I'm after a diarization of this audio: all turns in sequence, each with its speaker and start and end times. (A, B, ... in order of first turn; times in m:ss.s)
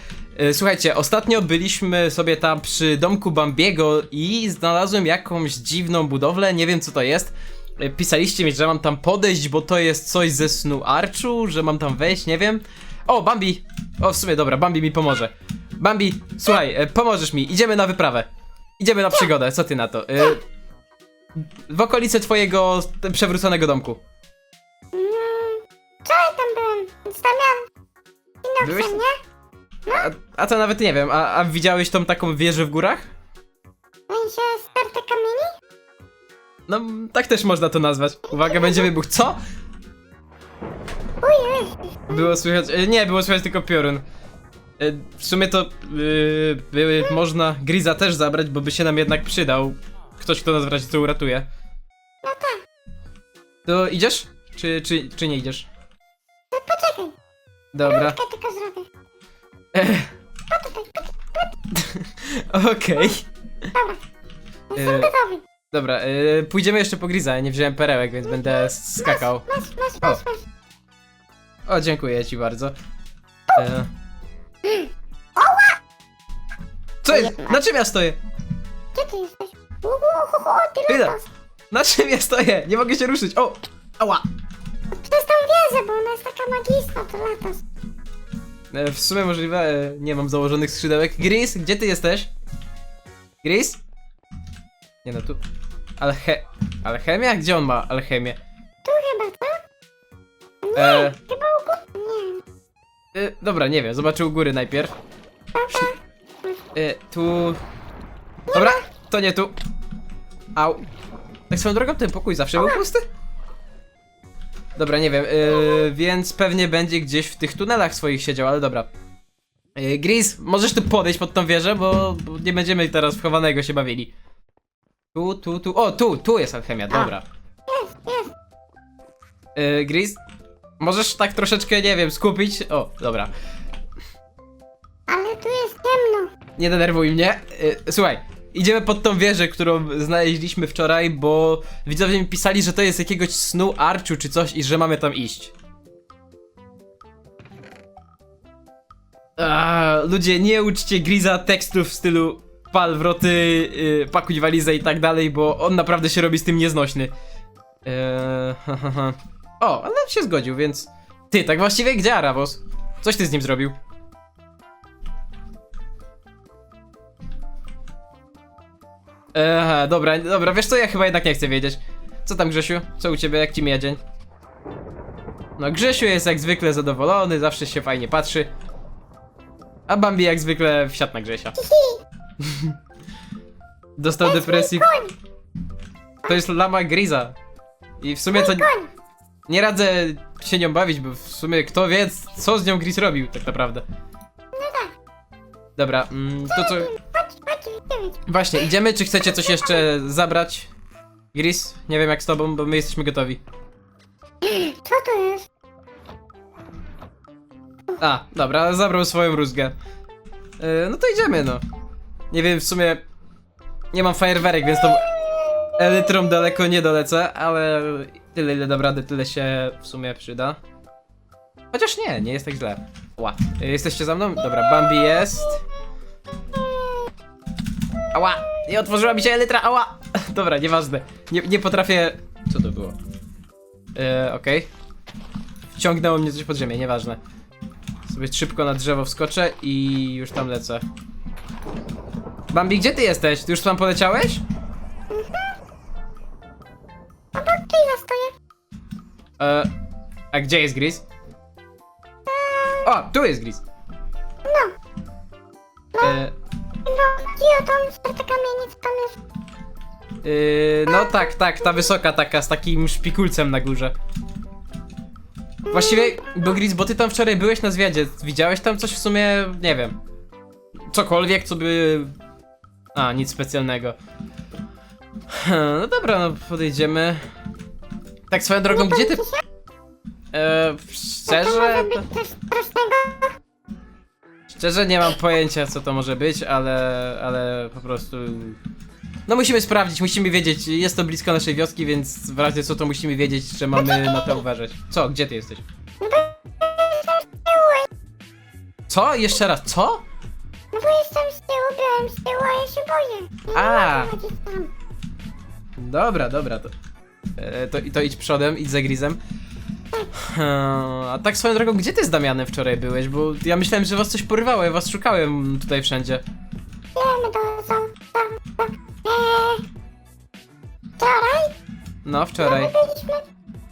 0:00.4-0:18.3 A
0:18.8-0:20.4 A
0:21.4-0:24.0 A
0:24.9-0:27.6 B
0:28.4-0:29.2 B
0:28.6-0:29.0 A
0:29.9-0:33.1 A
0:34.1-0:35.5 B
0:36.7-0:39.4 A
0:38.3-0:38.9 B
0:41.2-0:42.3 B
0:42.1-0:44.0 A
0:44.8-0:51.5 A
0:52.2-0:52.6 B
0:53.6-0:55.7 A
0:56.5-0:57.1 B
0:57.7-0:58.2 A
0:57.8-0:58.9 B
0:59.7-1:00.1 A
1:00.5-1:01.5 B
1:01.7-1:03.3 A
1:03.7-1:04.0 B
1:04.7-1:05.4 B
1:04.7-1:05.1 A
1:05.7-1:09.5 A
1:08.4-1:10.4 B
1:11.7-1:12.7 A
1:13.5-1:13.9 A
1:14.6-1:15.8 B
1:17.0-1:18.2 A
1:17.1-1:17.6 B
1:18.9-1:21.2 B
1:20.9-1:21.2 A
1:21.7-1:24.2 A
1:24.9-1:27.6 B
1:28.7-1:32.3 A
1:33.4-1:33.8 A
1:35.0-1:35.4 A
1:36.0-1:38.4 A
1:38.8-1:39.6 B
1:40.6-1:42.4 B
1:40.7-1:41.2 A
1:43.1-1:44.9 A
1:45.5-1:46.0 B
1:46.7-1:47.6 A
1:48.5-1:48.8 B
1:48.5-1:49.6 A
1:50.6-1:50.8 A
1:51.5-1:53.0 A
1:52.6-1:52.8 B
1:54.8-1:58.9 A
1:59.8-2:04.1 A
2:05.1-2:07.2 A
2:07.7-2:08.3 B
2:09.6-2:10.2 A
2:10.8-2:13.3 A
2:15.1-2:16.3 B
2:16.6-2:25.5 A
2:29.4-2:37.1 A
2:37.8-2:43.7 A
2:49.3-2:54.0 A
2:55.6-2:58.5 A
2:59.9-3:01.6 A
3:01.6-3:02.0 B
3:02.4-3:02.8 A
3:04.0-3:04.9 A
3:04.2-3:05.2 B
3:06.3-3:07.3 A
3:08.0-3:08.7 A
3:08.3-3:08.9 B
3:09.5-3:13.8 A
3:14.5-3:14.9 B
3:15.8-3:16.9 A
3:16.5-3:18.2 B
3:18.3-3:20.7 A
3:19.3-3:19.8 B
3:21.3-3:23.4 A
3:24.4-3:25.5 B
3:28.0-3:29.7 A
3:30.6-3:31.6 A
3:32.3-3:33.0 A
3:33.9-3:35.1 A
3:34.8-3:36.1 B
3:35.8-3:40.6 A
3:41.7-3:45.6 A
3:48.1-3:53.0 A
3:54.0-3:54.7 A
3:55.7-3:57.2 A
3:58.1-4:00.8 A
4:02.5-4:04.4 A
4:05.1-4:05.5 B
4:07.3-4:08.4 B
4:09.4-4:09.7 A
4:10.3-4:11.0 A
4:12.3-4:12.9 B
4:12.8-4:13.6 A
4:14.4-4:14.7 B
4:16.0-4:16.3 A
4:16.8-4:19.2 B
4:20.2-4:23.9 A
4:20.9-4:21.3 B
4:25.7-4:26.3 B
4:25.7-4:29.9 A
4:30.9-4:32.1 A
4:32.9-4:34.0 A
4:35.3-4:37.2 A
4:38.3-4:39.2 A
4:38.7-4:39.4 B
4:40.3-4:42.1 A
4:41.3-4:43.4 B
4:44.5-4:48.6 A
4:49.3-4:55.6 A
4:53.7-4:54.4 B
4:56.0-4:57.9 B
4:58.9-5:00.0 A
5:00.7-5:04.7 B
5:03.5-5:04.1 A
5:05.8-5:06.7 A
5:07.4-5:09.2 A
5:10.1-5:16.2 A
5:16.9-5:19.6 B
5:21.0-5:21.6 B
5:22.0-5:22.7 A
5:22.4-5:23.3 B